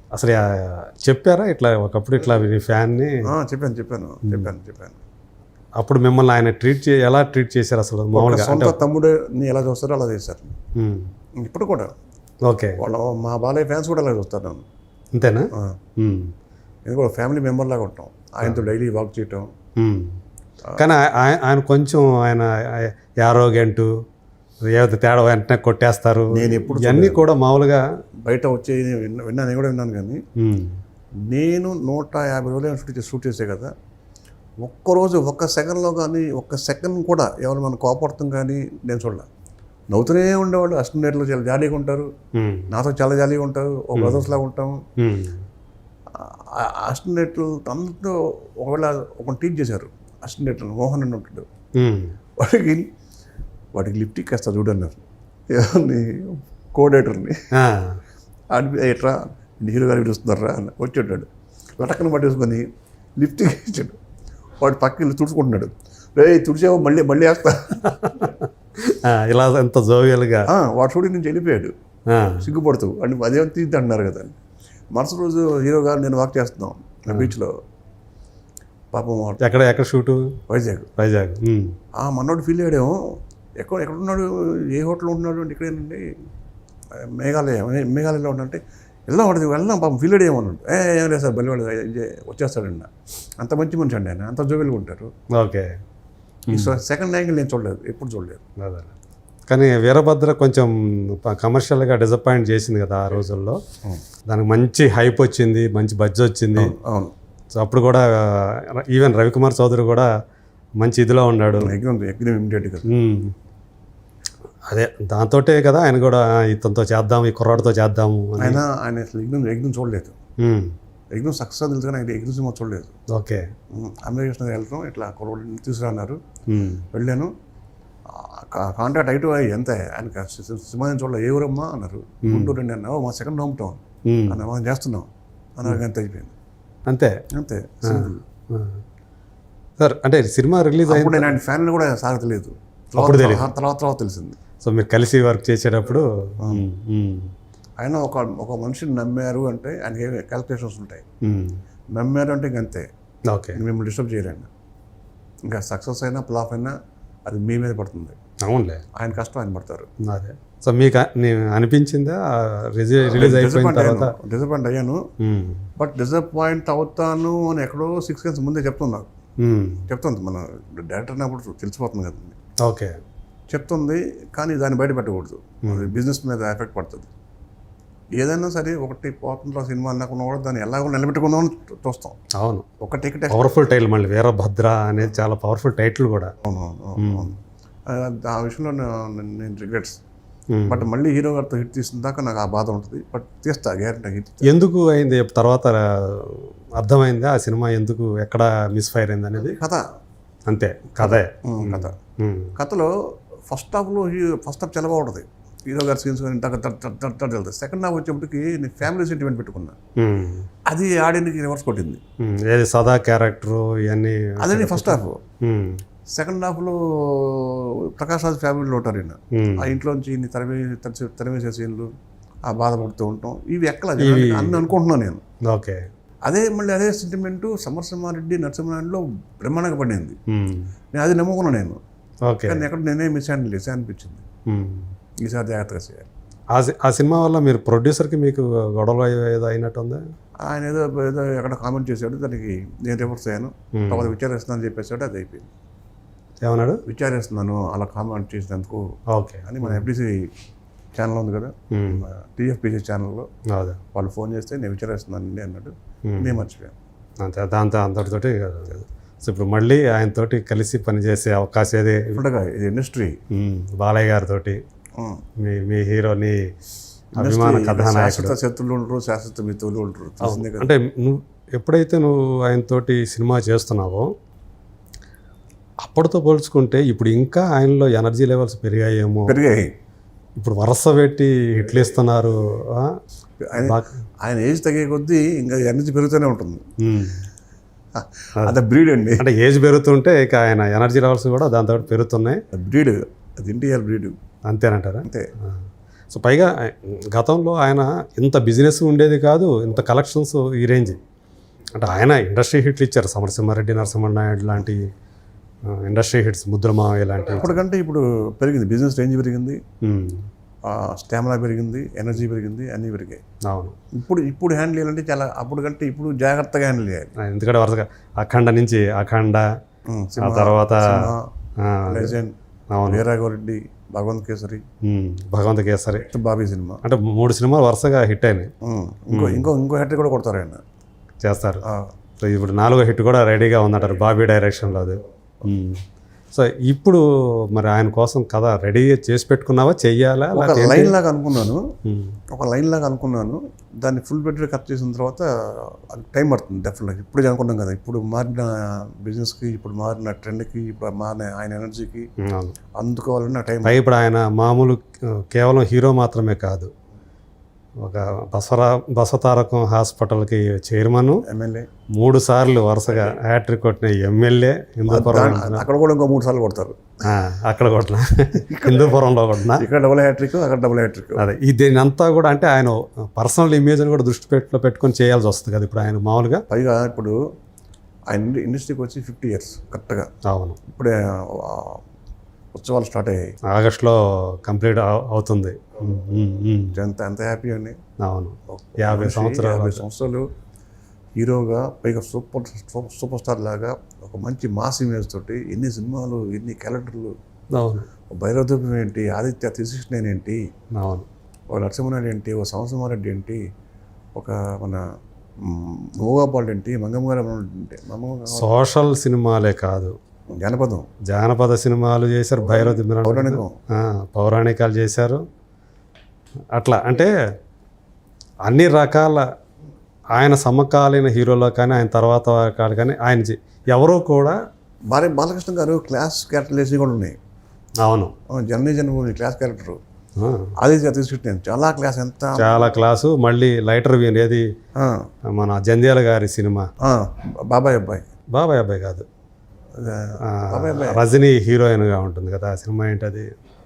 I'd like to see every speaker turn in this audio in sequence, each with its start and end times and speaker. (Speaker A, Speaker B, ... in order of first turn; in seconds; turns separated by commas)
Speaker A: 0.1-3.3, Speaker B: 3.3-5.0, Speaker A: 5.8-8.8, Speaker B: 8.1-10.6, Speaker A: 10.8-11.1, Speaker B: 11.4-11.9, Speaker A: 12.4-12.8, Speaker B: 12.8-14.6, Speaker A: 15.1-16.3, Speaker B: 16.9-19.5, Speaker A: 19.8-20.1, Speaker A: 20.8-23.9, Speaker A: 24.7-27.8, Speaker B: 26.3-27.2, Speaker B: 28.2-30.2, Speaker A: 30.4-30.8, Speaker B: 31.3-33.7, Speaker B: 34.6-39.3, Speaker B: 39.9-42.1, Speaker A: 42.3-42.7, Speaker B: 42.7-44.8, Speaker A: 44.0-44.3, Speaker A: 45.0-45.4, Speaker B: 46.1-51.5, Speaker A: 51.8-52.1, Speaker B: 52.4-52.9, Speaker B: 53.7-57.5, Speaker A: 57.5-58.0, Speaker B: 58.5-62.6, Speaker B: 63.2-64.0, Speaker B: 64.6-68.1, Speaker A: 67.9-70.5, Speaker B: 70.5-71.7, Speaker A: 72.1-72.5, Speaker B: 72.4-74.4, Speaker B: 74.9-77.5, Speaker B: 78.9-79.4, Speaker A: 79.4-80.4, Speaker B: 80.5-80.9, Speaker A: 81.0-81.8, Speaker B: 82.0-86.0, Speaker B: 87.0-95.1, Speaker A: 95.3-95.7, Speaker B: 96.5-98.4, Speaker A: 96.5-96.8, Speaker A: 98.6-98.9, Speaker A: 99.5-103.6, Speaker A: 104.3-106.7, Speaker B: 106.6-107.1, Speaker A: 107.6-110.1, Speaker A: 110.8-111.7, Speaker B: 111.6-112.8, Speaker A: 112.9-113.3, Speaker A: 114.7-118.6, Speaker B: 118.4-120.2, Speaker A: 120.4-120.7, Speaker B: 121.1-122.9, Speaker A: 123.1-123.4, Speaker B: 123.7-126.2, Speaker A: 126.5-126.8, Speaker B: 126.9-127.3, Speaker B: 128.1-136.3, Speaker A: 132.2-132.5, Speaker A: 134.1-134.4, Speaker A: 136.9-137.1, Speaker B: 137.3-138.2, Speaker A: 137.9-138.8, Speaker A: 139.8-141.3, Speaker B: 140.8-144.4, Speaker A: 143.0-143.5, Speaker A: 144.6-147.3, Speaker B: 147.8-151.0, Speaker A: 151.2-151.6, Speaker B: 151.9-152.8, Speaker A: 153.3-153.6, Speaker B: 153.6-154.5, Speaker B: 155.5-156.8, Speaker B: 157.3-158.2, Speaker A: 158.4-158.8, Speaker B: 159.0-159.9, Speaker A: 160.0-164.1, Speaker B: 163.0-165.0, Speaker A: 165.2-165.7, Speaker B: 165.8-169.1, Speaker A: 169.4-169.9, Speaker B: 169.9-172.4, Speaker A: 172.6-173.0, Speaker B: 173.5-177.1, Speaker B: 178.2-182.2, Speaker A: 182.3-182.7, Speaker B: 182.8-183.6, Speaker A: 183.3-186.3, Speaker B: 186.4-190.0, Speaker A: 187.0-187.3, Speaker A: 190.5-190.9, Speaker B: 190.7-194.5, Speaker A: 194.5-199.6, Speaker B: 199.4-199.8, Speaker A: 200.5-202.5, Speaker B: 201.0-201.9, Speaker B: 202.6-202.9, Speaker B: 203.5-209.8, Speaker A: 210.0-210.5, Speaker B: 210.7-212.0, Speaker A: 212.2-215.8, Speaker B: 214.4-215.2, Speaker B: 216.1-221.9, Speaker A: 219.3-219.7, Speaker B: 222.5-225.2, Speaker A: 224.0-224.7, Speaker A: 225.5-225.8, Speaker B: 226.2-230.2, Speaker A: 230.3-230.7, Speaker B: 230.9-231.8, Speaker A: 232.2-232.7, Speaker B: 232.5-234.2, Speaker A: 234.5-234.9, Speaker B: 235.2-236.1, Speaker A: 236.5-240.0, Speaker B: 240.4-245.5, Speaker A: 243.7-244.1, Speaker A: 246.4-246.8, Speaker B: 246.9-248.8, Speaker A: 249.1-249.8, Speaker B: 249.4-250.3, Speaker B: 250.9-253.2, Speaker A: 251.7-252.0, Speaker A: 253.5-253.8, Speaker B: 253.9-256.8, Speaker A: 256.1-256.4, Speaker A: 257.2-262.2, Speaker B: 262.1-263.2, Speaker A: 263.3-264.6, Speaker A: 265.4-266.4, Speaker B: 267.2-270.7, Speaker A: 267.2-268.4, Speaker A: 270.2-274.1, Speaker A: 275.8-279.4, Speaker B: 279.3-279.7, Speaker A: 280.4-282.9, Speaker B: 283.4-286.6, Speaker A: 283.6-283.9, Speaker A: 286.8-287.2, Speaker B: 287.9-289.2, Speaker A: 289.2-292.4, Speaker B: 292.5-294.2, Speaker A: 294.5-295.5, Speaker A: 296.1-301.0, Speaker A: 301.8-304.9, Speaker A: 305.8-307.5, Speaker B: 307.3-309.6, Speaker A: 309.8-310.2, Speaker B: 310.7-313.2, Speaker A: 313.4-313.8, Speaker B: 313.9-317.1, Speaker A: 317.2-319.4, Speaker B: 319.9-321.3, Speaker A: 320.2-322.1, Speaker B: 321.9-322.4, Speaker A: 322.7-323.0, Speaker B: 322.9-324.6, Speaker A: 324.9-326.1, Speaker B: 326.0-326.8, Speaker A: 326.8-328.5, Speaker B: 328.6-330.6, Speaker A: 329.1-329.5, Speaker A: 331.2-331.6, Speaker B: 331.6-331.9, Speaker A: 332.2-335.8, Speaker A: 336.3-337.0, Speaker A: 337.5-340.9, Speaker B: 340.3-341.7, Speaker A: 341.9-342.2, Speaker B: 342.3-352.1, Speaker A: 352.2-352.6, Speaker B: 352.8-353.8, Speaker A: 353.6-356.7, Speaker A: 357.8-361.2, Speaker B: 361.3-361.7, Speaker A: 362.0-365.7, Speaker B: 364.9-366.8, Speaker A: 367.1-369.6, Speaker B: 368.4-371.2, Speaker A: 371.2-376.4, Speaker B: 376.5-377.2, Speaker B: 378.1-380.1, Speaker A: 380.2-380.6, Speaker B: 380.7-381.8, Speaker B: 382.5-383.2, Speaker A: 383.5-386.8, Speaker B: 386.7-387.8, Speaker A: 388.0-389.8, Speaker B: 388.5-390.2, Speaker B: 391.2-397.1, Speaker A: 397.5-397.9, Speaker B: 398.1-400.4, Speaker A: 400.7-401.1, Speaker B: 401.5-403.4, Speaker B: 404.2-404.8, Speaker B: 405.4-408.5, Speaker A: 408.3-409.9, Speaker B: 410.4-410.9, Speaker A: 411.1-415.2, Speaker B: 412.5-413.6, Speaker A: 416.5-417.1, Speaker A: 418.4-419.2, Speaker A: 420.1-424.4, Speaker B: 424.9-427.2, Speaker A: 427.8-428.1, Speaker B: 428.3-429.8, Speaker A: 430.2-430.5, Speaker B: 430.6-432.7, Speaker A: 432.4-434.4, Speaker B: 434.8-435.1, Speaker A: 435.3-436.7, Speaker B: 436.8-438.1, Speaker A: 438.3-439.1, Speaker B: 439.8-441.0, Speaker A: 440.2-443.3